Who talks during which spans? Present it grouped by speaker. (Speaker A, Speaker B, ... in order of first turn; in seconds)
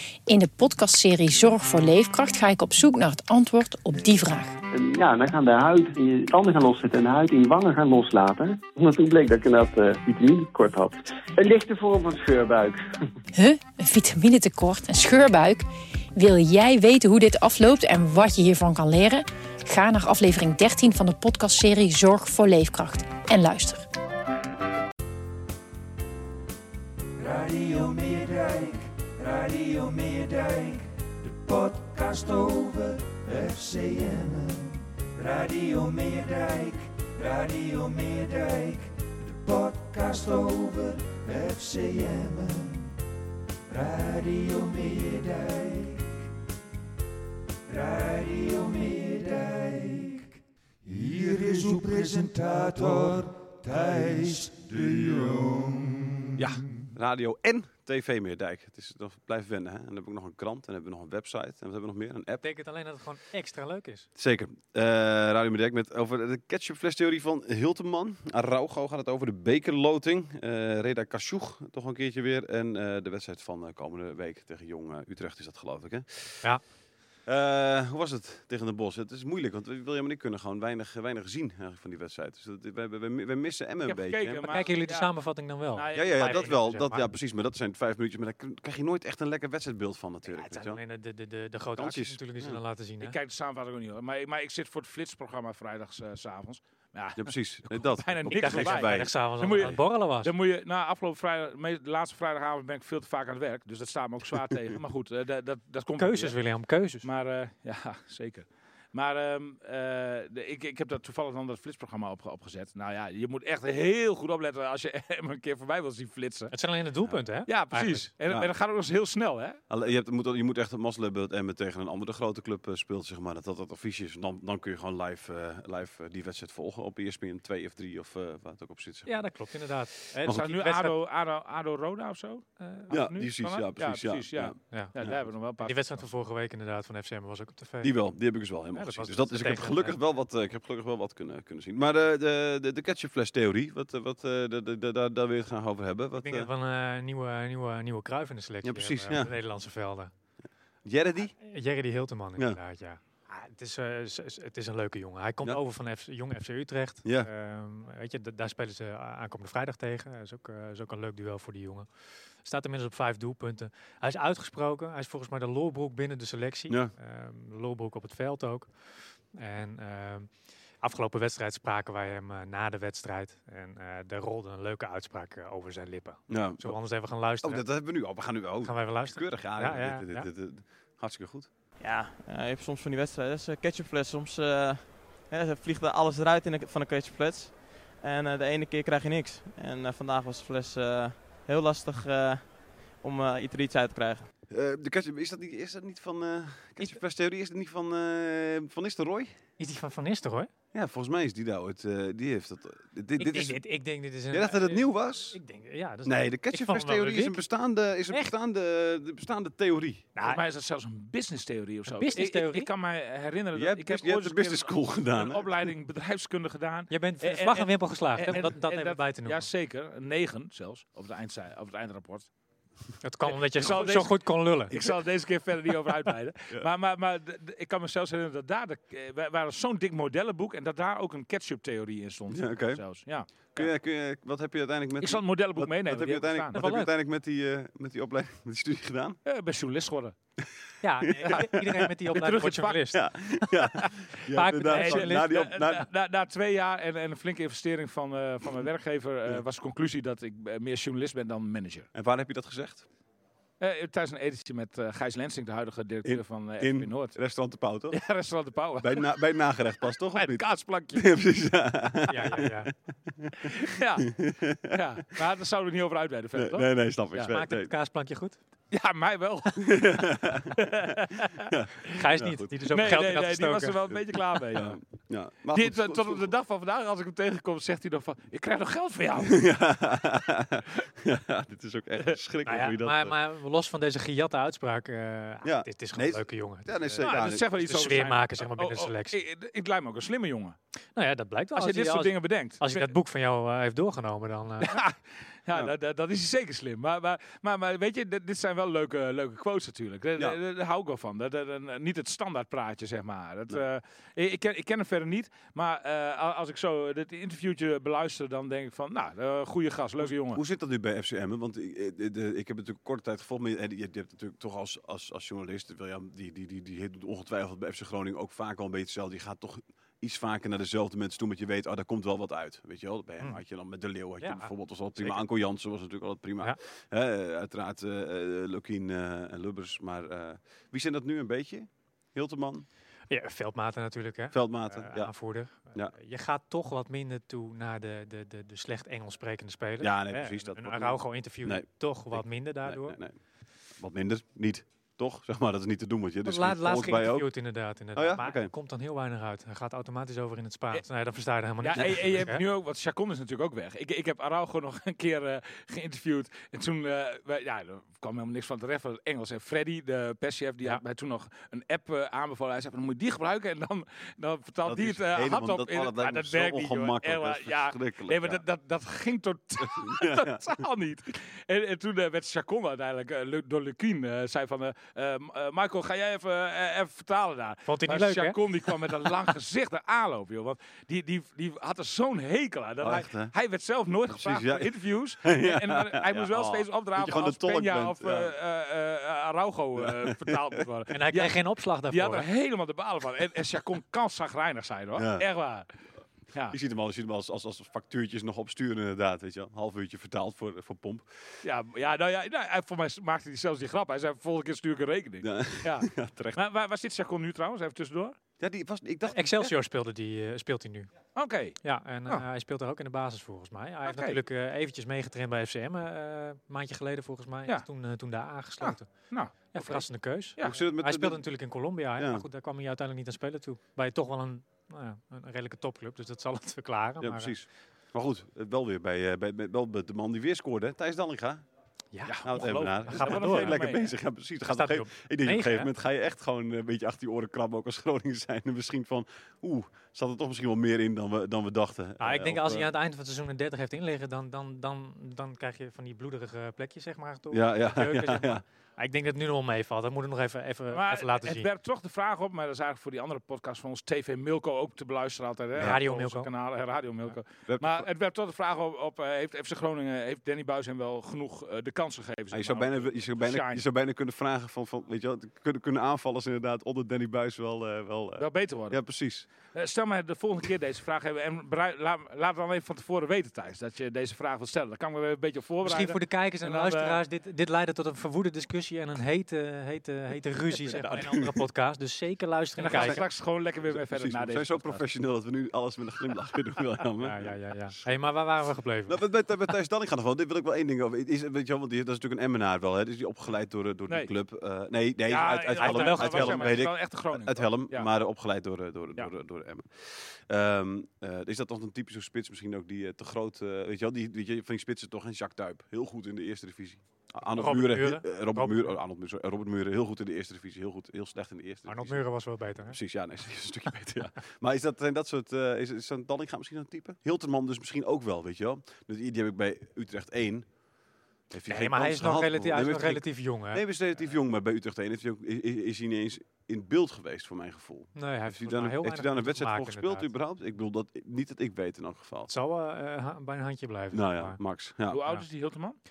Speaker A: 0.3-4.5, 13.3-23.9
Speaker B: 4.7-12.8
Speaker C: 27.2-42.9, 43.7-46.1, 47.7-50.3, 50.8-56.9
Speaker D: 56.4-62.5, 64.2-76.5, 77.2-84.6, 85.9-90.8, 91.8-92.6, 97.2-99.8, 104.3-104.6, 119.7-130.4, 132.9-135.3, 137.8-146.5, 148.6-149.3, 150.8-151.3, 157.0-157.3, 176.3-181.5, 194.5-199.4, 200.7-203.6, 204.3-205.4, 206.0-210.1, 213.5-215.7, 232.3-232.8, 233.4-239.2, 241.1-241.9, 242.9-245.9, 251.9-252.9, 256.0-258.0, 258.8-264.8, 266.3-267.7, 269.6-270.9, 271.5-273.0, 274.5-276.3, 279.2-283.1, 285.4-287.5, 310.0-332.6, 334.3-335.1, 339.8-347.3, 347.9-348.5, 351.7-352.3, 364.6-368.4, 369.6-370.6, 382.8-383.3, 384.1-388.3, 389.8-390.6, 394.9-395.2, 396.5-401.4, 405.2-406.4, 408.4-409.3, 420.4-421.2, 422.0-422.2, 427.0-431.5, 432.0-442.7, 447.3-448.4, 457.5-457.9, 462.3-469.3, 480.6-481.4, 482.7-487.8, 488.9-512.0, 512.6-520.5, 521.3-532.3, 533.9-535.0
Speaker E: 62.4-64.1, 84.5-87.0, 90.2-93.2, 98.3-100.3, 106.0-107.0, 116.5-118.1, 129.1-130.9, 132.6-132.9, 135.6-137.9, 138.7-140.0, 146.2-150.1, 151.4-161.9, 162.4-178.0, 178.6-180.3, 199.6-200.5, 203.2-207.4, 210.1-210.4, 211.9-212.7, 216.9-219.5, 223.0-224.7, 236.5-236.9, 240.8-243.0, 244.3-245.3, 262.1-262.7, 267.3-268.4, 271.9-273.8, 282.4-289.2, 290.9-294.8, 324.2-325.2, 333.1-343.0, 346.2-352.4, 377.6-378.4, 390.9-392.3, 409.1-410.9, 411.6-427.3, 431.9-433.7, 434.5-435.7, 442.0-451.5, 455.6-456.3, 475.6-483.0, 487.0-489.0, 495.6-496.6, 507.3-508.7, 511.7-512.8, 521.5-523.6, 527.9-530.1, 532.3-534.4
Speaker F: 83.8-85.1, 85.7-86.5, 93.0-106.4, 107.0-116.5, 117.5-119.6, 130.2-136.1, 210.2-222.3, 223.2-233.7, 235.0-236.6, 239.2-240.1, 242.1-243.1, 244.7-251.9, 253.6-257.2, 257.9-259.2, 260.1-261.1, 263.5-267.3, 268.7-269.9, 270.6-271.5, 272.7-274.8, 275.5-279.5, 287.0-290.6, 291.5-292.9, 294.6-310.4, 351.6-395.7, 396.3-396.6, 401.4-408.1, 411.1-412.2, 413.9-414.2, 418.6-419.9, 432.2-433.9, 450.7-463.6, 468.2-468.8, 469.4-477.0, 482.6-484.8, 495.1-497.9, 534.9-535.8
Speaker G: 181.8-194.3